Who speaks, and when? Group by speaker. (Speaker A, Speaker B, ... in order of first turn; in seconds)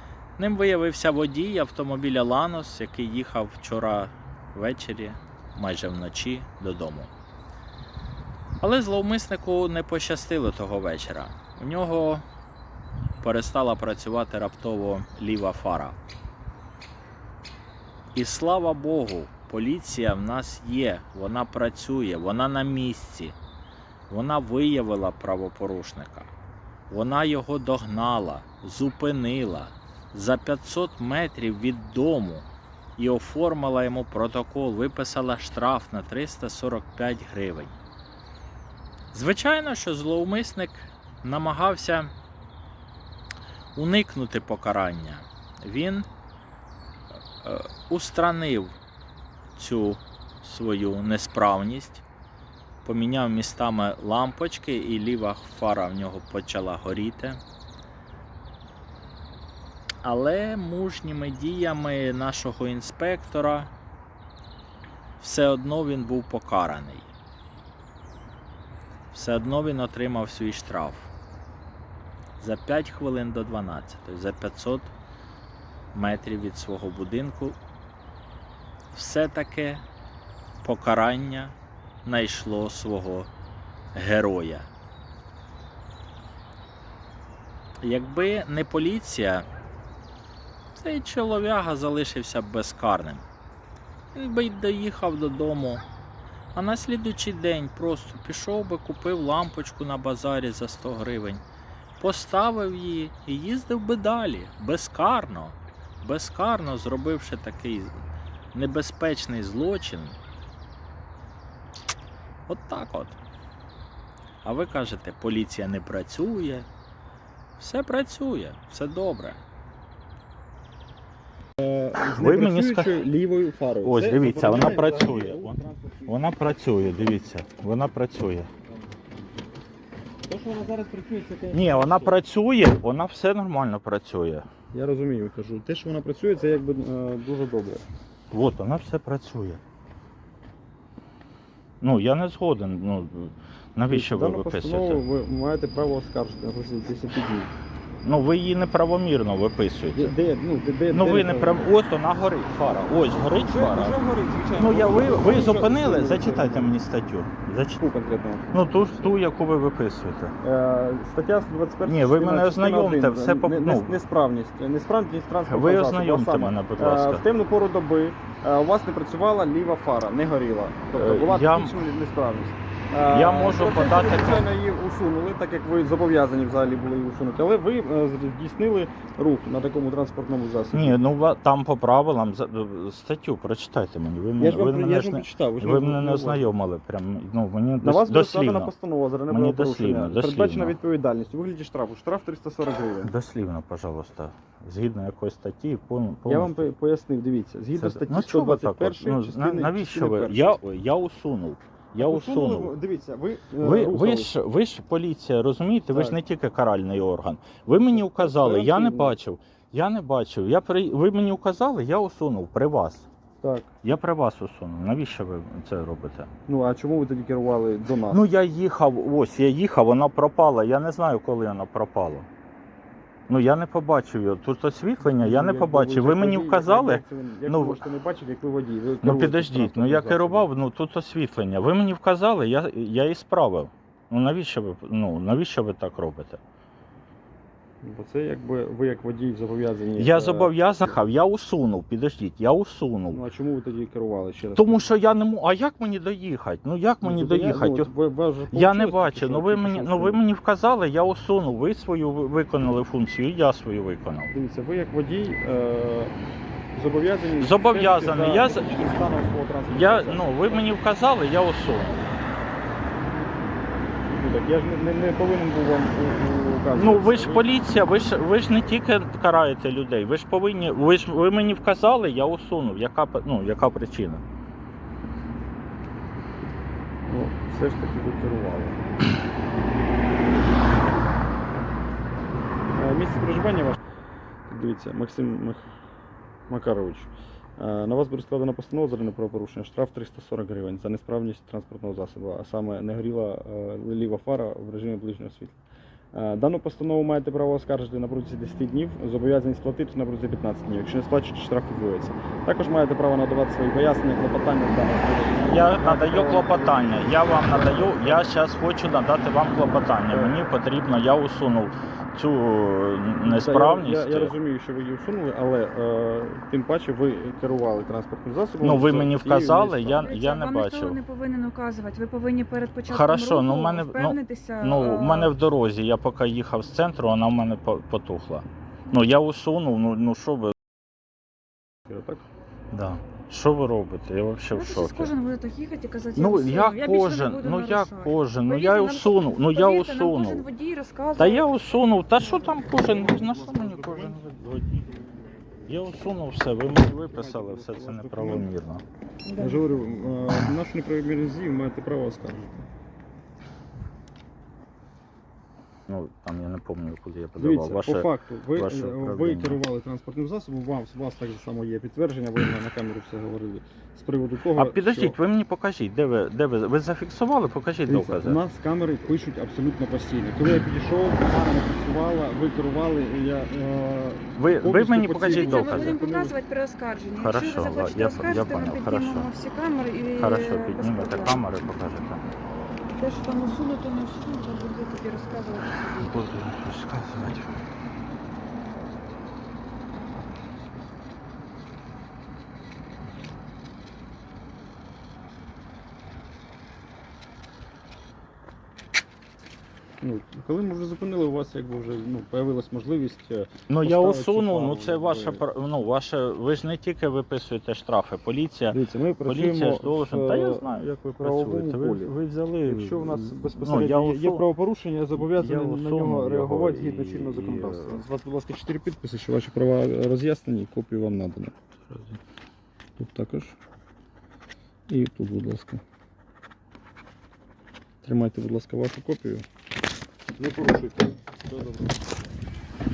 Speaker A: 0.4-7.1, 8.6-12.2, 13.2-16.0, 18.1-23.4, 24.1-26.3, 26.9-32.5, 33.0-37.8, 39.1-42.1, 43.8-46.1, 47.4-48.8, 49.6-52.0, 52.9-57.4, 60.0-63.7, 65.2-67.1, 69.1-71.1, 72.4-74.9, 75.9-77.6, 78.9-79.8, 80.6-83.3, 83.9-84.7, 87.8-89.5, 90.7-93.2, 94.1-95.8, 96.5-101.4, 102.0-108.0, 108.5-110.2, 112.5-113.2, 114.4-116.7, 117.6-119.4, 122.0-123.0, 123.8-128.5, 131.5-134.5, 138.3-139.6, 141.8-145.0, 148.0-150.2, 150.9-154.0, 154.6-157.8, 158.5-160.3, 161.9-164.0, 165.5-167.2, 170.9-171.8, 173.1-174.5, 180.7-188.7, 189.3-190.8, 193.0-196.7, 197.8-202.7, 203.6-213.1, 213.8-216.3, 218.1-222.3, 223.3-227.8, 229.0-236.4, 240.0-243.2, 244.6-247.9, 248.5-254.3, 257.4-258.7, 259.7-262.1, 266.8-274.2, 305.5-314.3, 318.6-321.0, 322.9-330.6, 332.7-335.1, 336.2-340.5, 341.2-344.9, 345.7-348.8, 355.9-359.6, 364.6-368.4, 374.4-376.0, 377.2-379.3, 380.2-382.2, 385.9-387.6, 403.7-414.4, 415.1-418.0, 421.9-422.2
Speaker B: 121.6-126.2, 130.3-132.2, 134.7-137.8, 143.9-147.5, 149.9-151.7, 153.3-156.7, 157.8-159.2, 160.4-181.0, 184.4-186.4, 187.8-193.1, 196.2-200.6, 202.0-204.3, 205.9-206.2, 207.8-209.2, 213.4-213.7, 216.5-218.2, 225.0-230.5, 237.8-240.5, 243.1-244.9, 247.0-250.2, 254.3-256.1, 256.7-260.7, 264.0-267.4, 277.1-278.8, 282.8-283.8, 284.5-285.6, 286.5-295.6, 296.1-306.9, 307.5-308.2, 310.1-310.4, 313.2-320.0, 331.9-332.2, 342.6-344.2, 346.9-348.5, 349.4-352.7, 357.4-365.2, 367.9-376.4, 400.0-405.4, 408.7-412.1, 412.7-421.5, 423.0-423.6, 424.9-425.8, 428.0-429.4, 430.4-431.9
Speaker C: 319.9-325.4, 334.5-341.5, 342.5-343.1, 349.3-349.6, 375.2-381.4, 383.0-386.3